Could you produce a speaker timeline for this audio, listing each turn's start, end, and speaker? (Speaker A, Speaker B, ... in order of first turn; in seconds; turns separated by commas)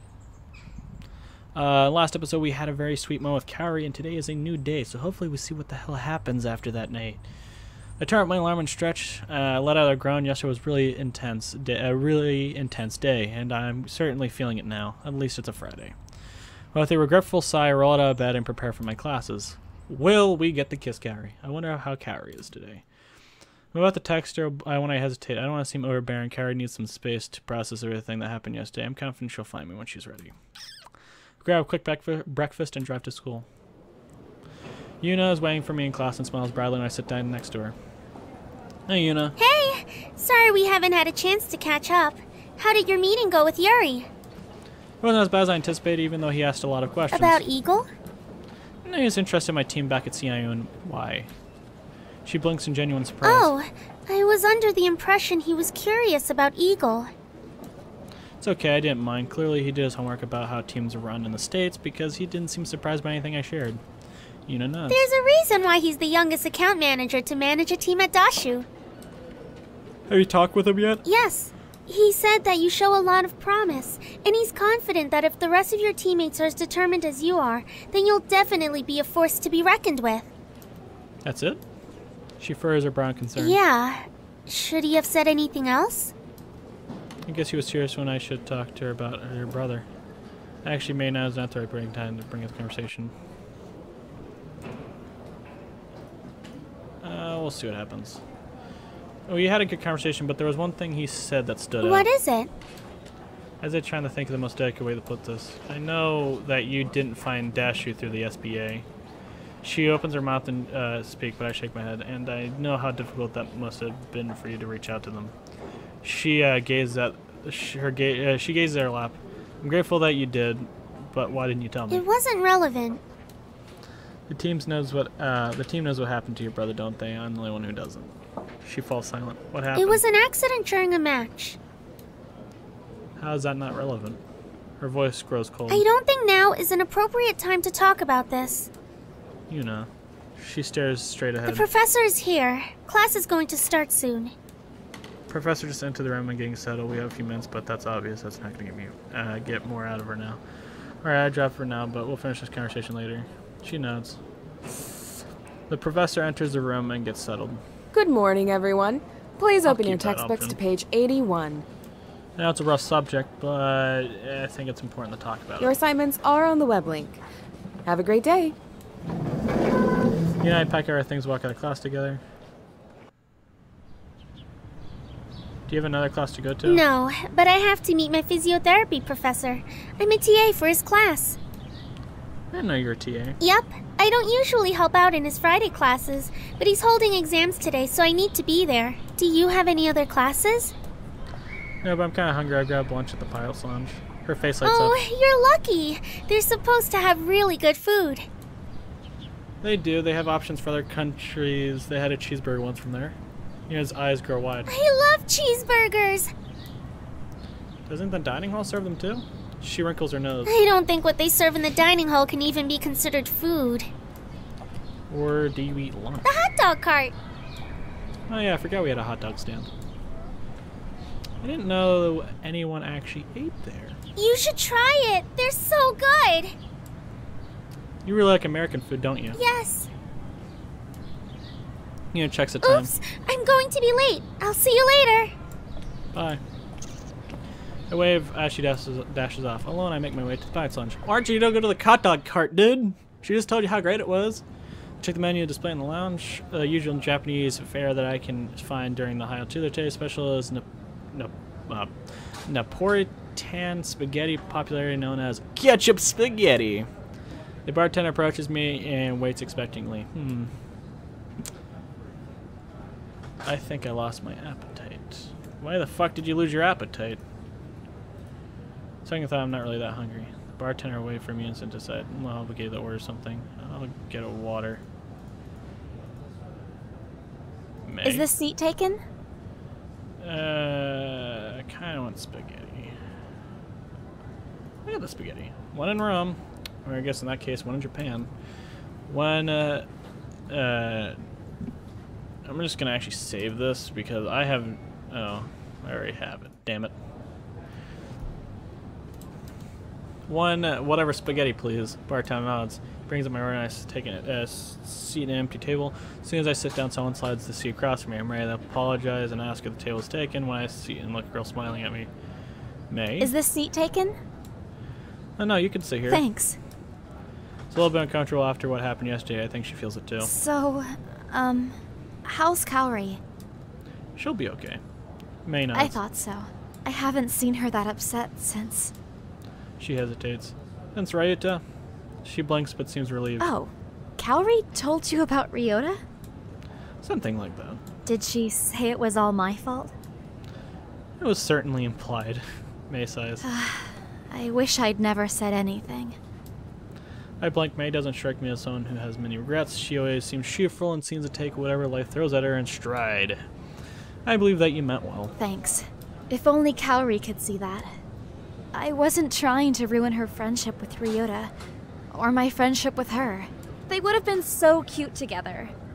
Speaker A: 1.5-7.2, Speaker A: 8.0-15.9, Speaker A: 16.7-22.8, Speaker A: 23.7-30.3, Speaker A: 31.4-33.5, Speaker A: 35.0-37.7, Speaker A: 38.9-39.4, Speaker B: 39.4-44.1, Speaker A: 45.0-47.4, Speaker B: 47.1-47.9, Speaker A: 48.8-51.3, Speaker A: 52.2-53.5, Speaker B: 53.2-57.1, Speaker A: 58.4-63.8, Speaker A: 64.5-65.1, Speaker B: 64.9-68.7, Speaker A: 70.1-71.0, Speaker B: 71.0-80.3, Speaker A: 81.2-81.6, Speaker A: 82.4-83.6, Speaker B: 83.3-86.1, Speaker A: 87.2-89.8, Speaker A: 90.6-93.1, Speaker A: 97.0-98.2, Speaker A: 99.3-102.1, Speaker B: 101.8-102.5, Speaker A: 103.6-108.8, Speaker A: 109.6-115.3, Speaker A: 116.0-122.0, Speaker B: 121.9-123.0, Speaker A: 124.3-130.0, Speaker B: 129.7-131.6, Speaker A: 133.2-134.2, Speaker A: 134.8-135.8, Speaker B: 135.7-138.7, Speaker A: 139.5-141.7, Speaker B: 141.4-144.3, Speaker A: 145.3-150.4, Speaker A: 151.0-154.2, Speaker A: 155.7-157.6, Speaker C: 157.9-161.6, Speaker A: 159.6-160.6, Speaker A: 162.4-165.8, Speaker C: 165.6-167.2, Speaker C: 167.8-168.6, Speaker A: 170.4-172.2, Speaker A: 175.7-176.8, Speaker B: 176.6-181.4, Speaker A: 182.5-183.4, Speaker B: 183.4-190.7, Speaker A: 191.8-194.9, Speaker B: 194.6-198.3, Speaker A: 199.6-203.2, Speaker A: 203.7-204.7, Speaker B: 204.7-206.3, Speaker A: 207.9-210.5, Speaker B: 210.4-213.9, Speaker A: 215.1-216.4, Speaker B: 216.2-217.1, Speaker A: 218.3-219.7, Speaker A: 221.4-224.0, Speaker B: 224.2-226.5, Speaker A: 228.0-229.4, Speaker B: 229.3-229.9, Speaker A: 232.1-232.9, Speaker B: 232.6-235.3, Speaker A: 236.1-236.4, Speaker A: 237.9-244.4, Speaker A: 245.0-251.9, Speaker A: 252.5-256.9, Speaker A: 257.6-260.5, Speaker A: 263.4-267.2, Speaker A: 269.0-274.8, Speaker A: 277.8-278.3, Speaker D: 278.0-279.0, Speaker A: 280.2-282.9, Speaker A: 284.9-288.3, Speaker A: 289.1-289.9, Speaker A: 290.5-291.2, Speaker A: 292.4-296.9, Speaker A: 300.3-312.1, Speaker A: 312.9-313.3, Speaker D: 313.2-314.2, Speaker A: 315.4-316.2, Speaker D: 316.1-316.6, Speaker A: 317.7-320.3, Speaker D: 320.2-323.2, Speaker A: 324.2-324.8, Speaker A: 325.4-326.0, Speaker D: 325.7-328.9, Speaker A: 329.8-331.6, Speaker A: 332.2-333.5, Speaker D: 333.4-336.0, Speaker A: 337.0-337.8, Speaker D: 338.1-339.9, Speaker A: 341.2-343.4, Speaker D: 343.4-346.2, Speaker A: 347.4-353.4, Speaker A: 354.2-355.4, Speaker D: 355.4-357.9, Speaker D: 358.7-361.5, Speaker D: 362.1-365.7